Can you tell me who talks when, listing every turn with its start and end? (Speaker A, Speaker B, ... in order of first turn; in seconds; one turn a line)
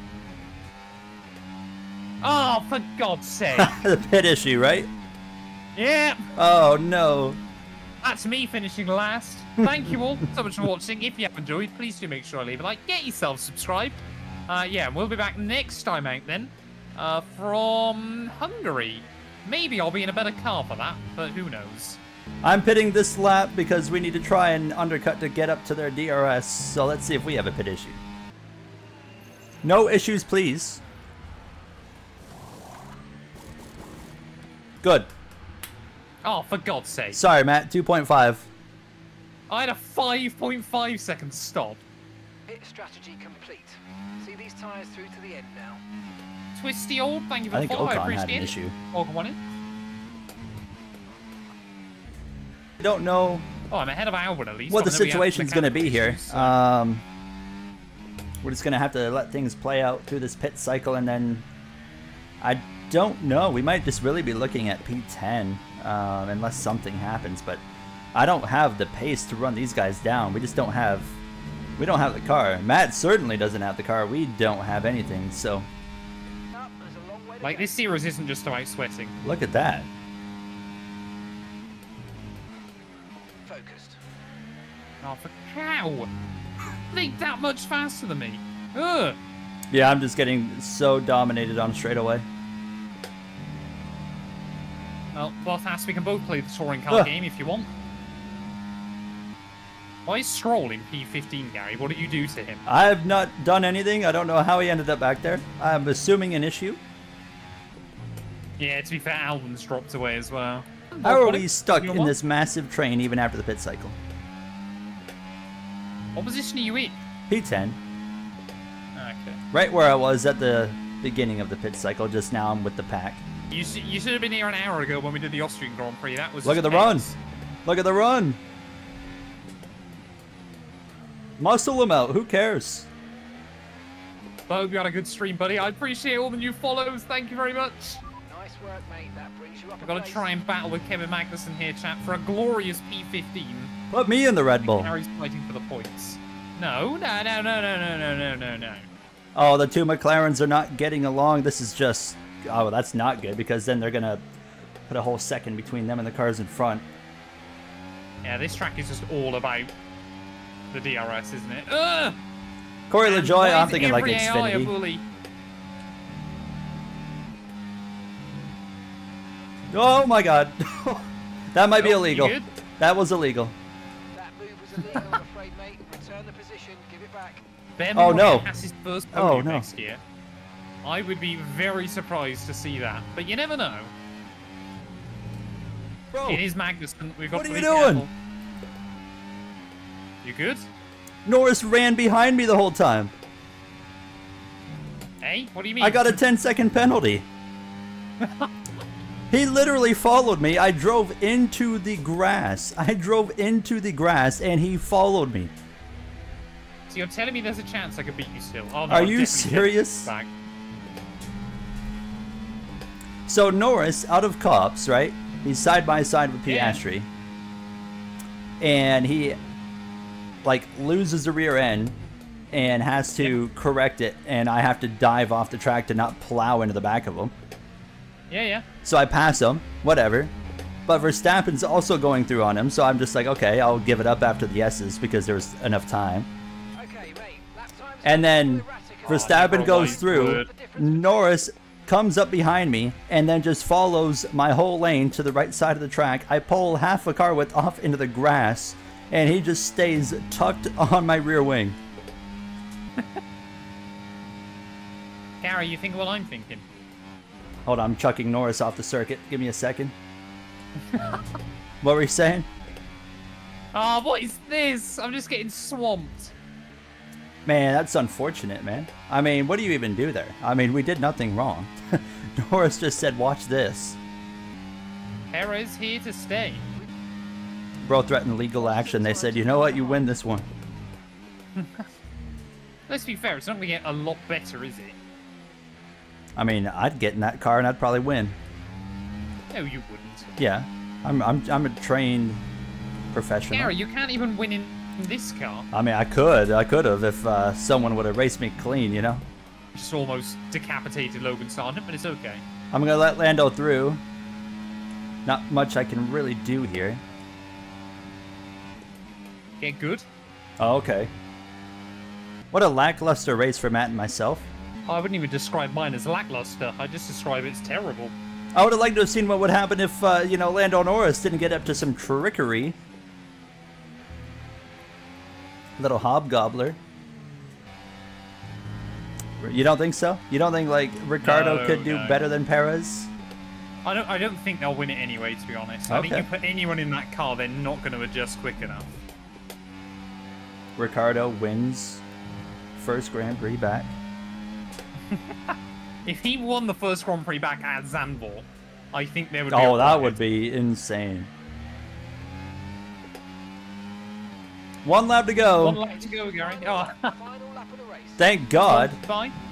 Speaker A: 2.2-3.7
Speaker B: 3.5-4.9
Speaker A: 5.8-6.2
Speaker B: 6.3-7.4
Speaker A: 8.0-22.0
Speaker B: 9.6-10.0
Speaker B: 22.4-28.0
Speaker B: 29.6-30.8
Speaker B: 34.8-35.1
Speaker A: 36.2-37.2
Speaker B: 37.1-38.5
Speaker A: 39.5-41.8
Speaker C: 42.5-45.8
Speaker A: 46.5-49.4
Speaker B: 47.5-48.7
Speaker B: 52.8-53.5
Speaker A: 53.7-56.6
Speaker B: 54.7-57.0
Speaker B: 58.4-61.5
Speaker B: 62.4-67.6
Speaker B: 68.2-71.2
Speaker B: 71.8-75.7
Speaker C: 76.5-78.0
Speaker A: 77.4-79.2
Speaker B: 79.2-79.9
Speaker C: 83.5-84.0
Speaker A: 85.0-86.1
Speaker A: 86.9-89.2
Speaker B: 89.7-92.2
Speaker A: 95.1-97.7
Speaker A: 100.1-102.7
Speaker B: 102.7-106.8
Speaker A: 108.6-112.2
Speaker B: 111.0-114.0
Speaker A: 116.2-117.0
Speaker B: 117.3-117.8
Speaker A: 119.0-119.4
Speaker B: 119.5-123.2
Speaker A: 123.5-127.2
Speaker B: 126.4-127.1
Speaker B: 127.7-128.4
Speaker B: 131.4-132.9
Speaker A: 134.5-138.0
Speaker C: 138.3-140.3
Speaker A: 139.8-143.7
Speaker B: 143.9-144.9
Speaker A: 144.6-148.9
Speaker B: 149.3-154.2
Speaker B: 154.9-156.8
Speaker A: 158.2-159.7
Speaker A: 160.7-162.2
Speaker B: 162.9-164.7
Speaker A: 163.0-165.0
Speaker B: 169.7-173.6
Speaker A: 171.8-172.5
Speaker C: 174.1-177.4
Speaker A: 177.8-180.0
Speaker B: 177.9-178.5
Speaker B: 179.1-179.7
Speaker A: 180.8-183.9
Speaker B: 186.1-186.4
Speaker A: 186.2-188.1
Speaker B: 187.3-188.1
Speaker A: 190.2-190.7
Speaker B: 191.2-193.1
Speaker A: 195.2-196.2
Speaker B: 195.8-197.2
Speaker A: 198.2-198.5
Speaker B: 199.3-205.5
Speaker A: 206.9-210.3
Speaker B: 208.9-210.1
Speaker B: 213.3-217.1
Speaker A: 216.5-216.8
Speaker B: 218.6-219.4
Speaker B: 220.4-222.0
Speaker B: 222.5-227.3
Speaker A: 223.2-223.4
Speaker A: 228.3-228.7
Speaker B: 228.8-230.3
Speaker B: 230.9-236.3
Speaker C: 236.8-241.4
Speaker B: 238.0-251.8
Speaker A: 239.1-240.5
Speaker A: 255.4-256.6
Speaker B: 257.7-259.9
Speaker A: 260.9-261.3
Speaker B: 261.8-262.5
Speaker A: 263.7-266.3
Speaker B: 267.5-271.7
Speaker B: 272.4-274.0
Speaker A: 275.3-276.6
Speaker B: 277.8-280.5
Speaker C: 278.6-280.1
Speaker A: 281.6-281.9
Speaker A: 282.9-285.0
Speaker B: 286.4-288.4
Speaker A: 289.5-290.3
Speaker B: 290.4-292.4
Speaker B: 293.1-293.7
Speaker A: 293.5-295.7
Speaker B: 295.7-299.2
Speaker A: 299.7-302.4
Speaker B: 302.7-304.0
Speaker B: 305.2-307.0
Speaker A: 309.6-310.1
Speaker B: 310.6-311.1
Speaker B: 312.5-314.5
Speaker A: 314.9-318.1
Speaker B: 318.6-322.8
Speaker B: 325.8-326.8
Speaker B: 329.4-333.1
Speaker A: 331.2-332.2
Speaker A: 333.8-338.9
Speaker B: 335.9-336.3
Speaker B: 340.8-342.0
Speaker B: 342.8-344.0
Speaker A: 345.1-350.3
Speaker B: 349.5-351.3
Speaker B: 354.8-355.8
Speaker A: 355.5-357.1
Speaker C: 355.8-358.3
Speaker B: 358.2-359.0
Speaker A: 358.6-359.4